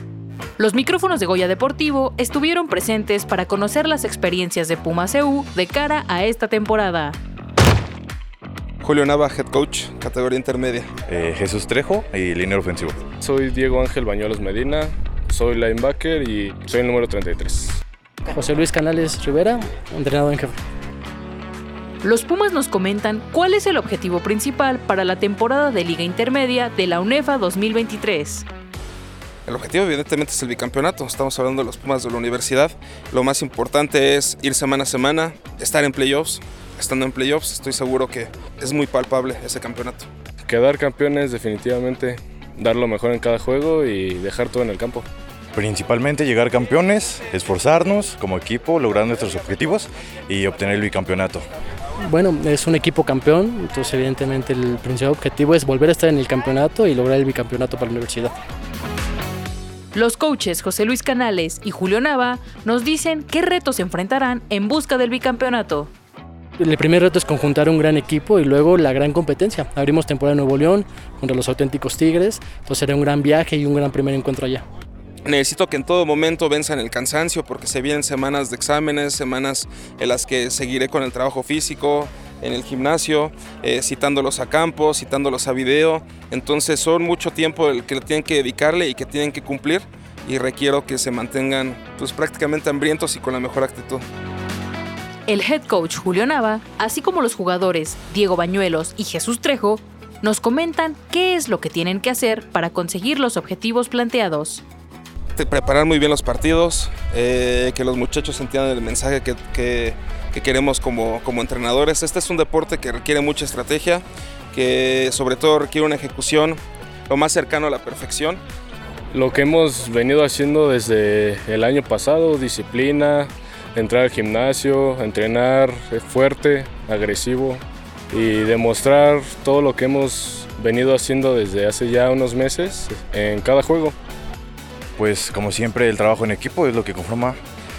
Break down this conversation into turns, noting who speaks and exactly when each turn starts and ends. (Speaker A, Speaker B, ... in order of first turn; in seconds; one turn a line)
Speaker A: 0.6-7.2
Speaker B: 8.8-10.9
Speaker C: 11.1-13.0
Speaker D: 13.2-17.8
Speaker E: 18.3-20.6
Speaker A: 22.0-28.4
Speaker B: 29.4-40.1
Speaker D: 40.4-45.1
Speaker C: 45.5-51.4
Speaker E: 52.1-58.3
Speaker A: 59.9-65.9
Speaker E: 66.6-74.6
Speaker B: 75.2-94.0
Speaker A: 95.3-104.6
Speaker B: 105.4-118.4
Speaker D: 119.1-133.9
Speaker C: 135.0-137.4